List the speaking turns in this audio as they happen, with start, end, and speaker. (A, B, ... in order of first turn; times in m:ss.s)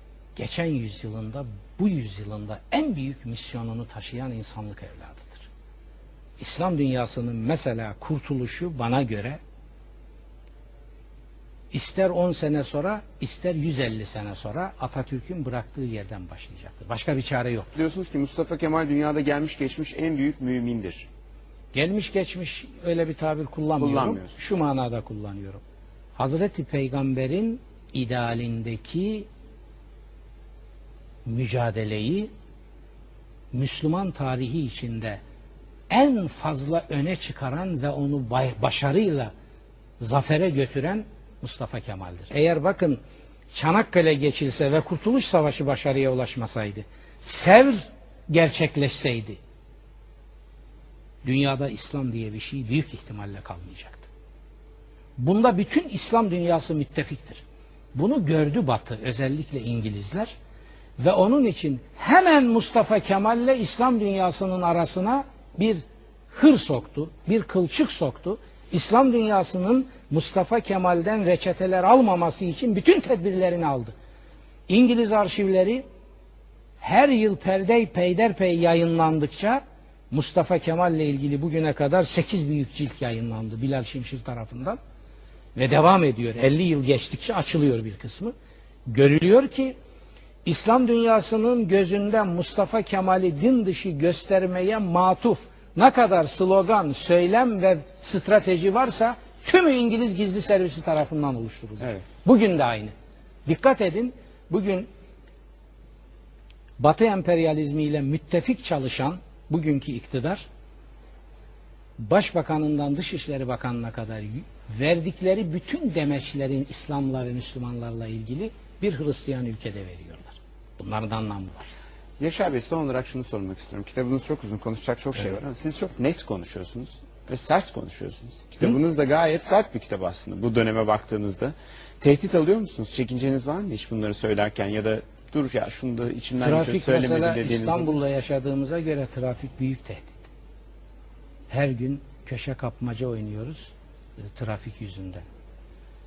0:00.4-0:05.5 A
0:06.4-0:09.4 A
0:11.7-0:17.7 A
0:17.7-0:21.1 B
0:21.7-0:25.6 A
0:23.8-0:24.3 B
0:26.2-0:29.3 A
0:31.2-0:32.3 A
0:33.5-0:35.2 A
0:35.9-0:39.3 A
0:40.0-0:43.0 A
0:43.5-0:49.4 A
0:51.2-0:54.1 A
0:55.2-0:57.4 A
0:57.9-1:00.3 A
1:01.0-1:13.9 A
1:14.7-1:15.8 A
1:16.8-1:24.8 A
1:25.5-1:28.3 A
1:28.9-1:29.7 A
1:30.4-1:42.9 A
1:43.4-1:44.9 A
1:46.8-1:50.4 A
1:52.0-2:01.7 A
2:02.2-2:18.0 B
2:16.4-2:20.2 A
2:21.5-2:23.7 A
2:24.3-2:25.2 A